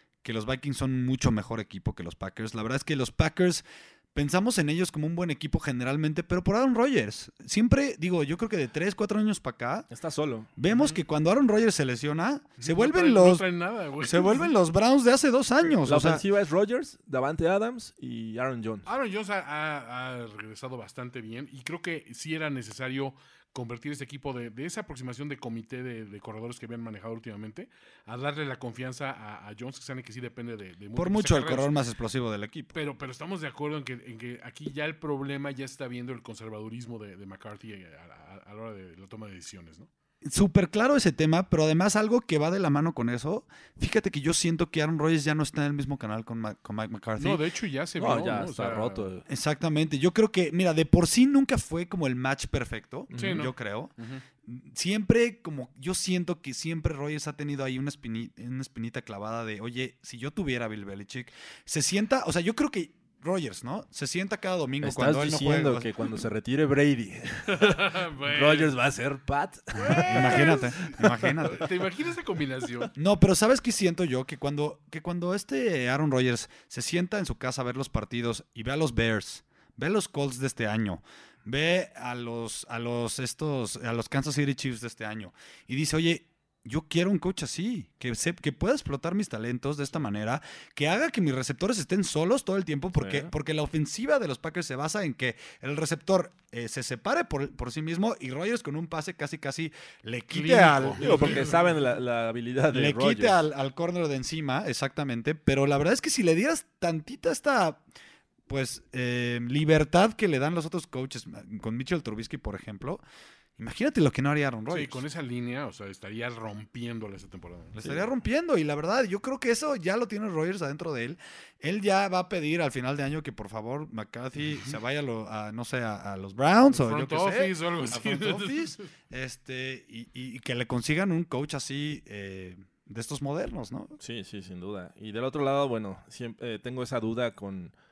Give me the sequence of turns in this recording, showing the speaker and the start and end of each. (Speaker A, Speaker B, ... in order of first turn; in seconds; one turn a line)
Speaker A: 0.2-9.9
Speaker B: 9.9-10.5
Speaker A: 10.6-13.5
Speaker C: 10.7-11.0
Speaker C: 12.6-14.5
Speaker A: 14.0-16.2
Speaker B: 15.8-18.9
Speaker C: 18.9-31.8
Speaker A: 30.9-32.8
Speaker C: 32.7-39.9
Speaker A: 40.2-47.4
Speaker C: 47.2-49.1
Speaker B: 48.0-49.2
Speaker A: 49.3-53.9
Speaker B: 53.1-53.5
Speaker C: 53.1-54.2
Speaker A: 54.4-65.9
Speaker B: 64.8-70.7
Speaker C: 67.5-68.7
Speaker C: 69.8-72.9
Speaker A: 70.0-71.7
Speaker A: 73.0-101.4
Speaker B: 93.0-93.3
Speaker C: 100.3-101.5
Speaker B: 101.0-103.4
Speaker A: 102.7-107.8
Speaker A: 108.5-113.0
Speaker A: 113.6-115.0
Speaker C: 114.7-118.0
Speaker A: 117.8-133.9
Speaker C: 126.7-128.9
Speaker B: 134.0-137.7